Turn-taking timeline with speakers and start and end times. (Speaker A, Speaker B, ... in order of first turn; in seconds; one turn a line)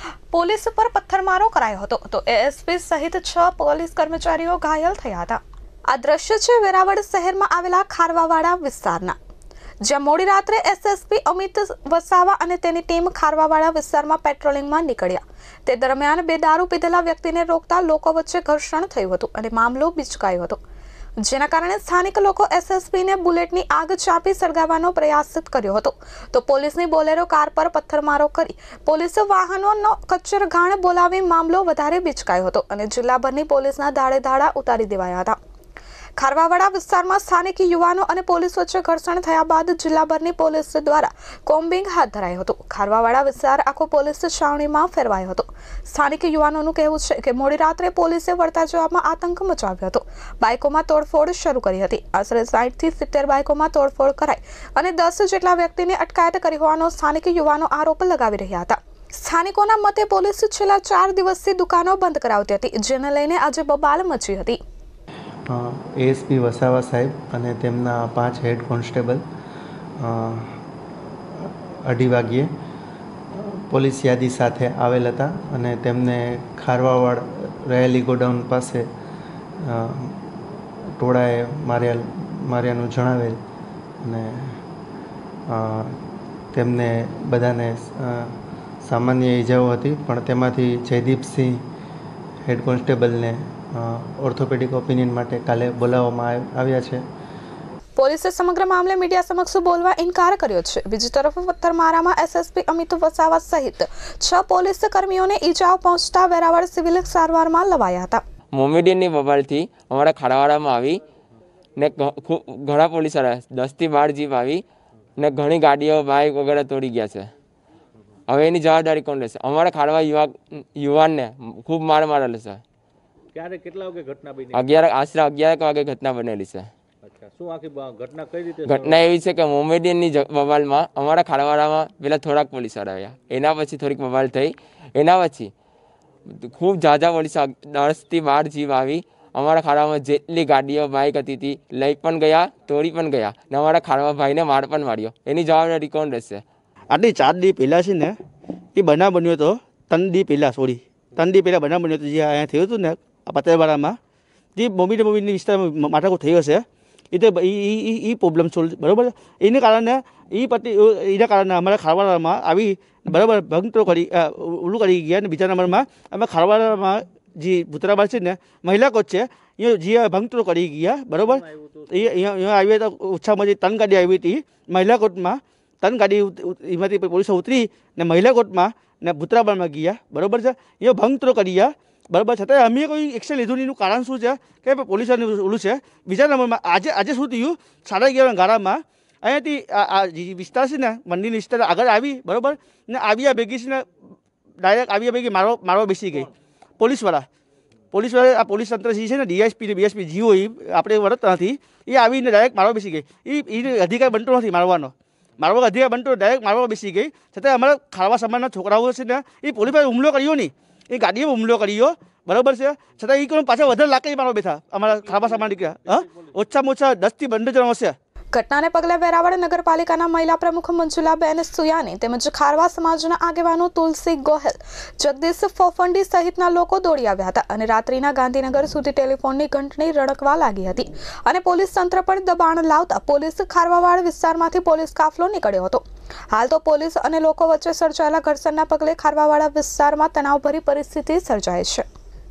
Speaker A: 0.3-9.2
Speaker A: 9.8-20.6
Speaker A: 21.2-35.4
Speaker A: 36.2-64.6
Speaker B: 65.5-69.2
Speaker B: 70.0-70.6
Speaker B: 71.3-72.5
Speaker B: 73.3-78.8
Speaker B: 79.6-80.4
Speaker B: 81.0-83.4
Speaker B: 84.0-84.6
Speaker B: 85.5-86.0
Speaker B: 86.5-91.6
Speaker B: 92.5-97.0
Speaker A: 98.0-108.2
Speaker C: 108.5-111.0
Speaker C: 111.8-114.6
Speaker C: 115.2-117.3
Speaker C: 118.3-122.6
Speaker D: 123.3-124.8
Speaker C: 124.5-126.7
Speaker D: 127.0-129.0
Speaker C: 128.6-135.5
Speaker C: 136.3-146.4
Speaker E: 146.9-148.2
Speaker E: 148.7-154.0
Speaker E: 154.6-193.9
Speaker D: 171.2-172.2
Speaker E: 194.6-197.3
Speaker E: 197.9-217.9
Speaker D: 214.9-216.3
Speaker A: 218.3-241.8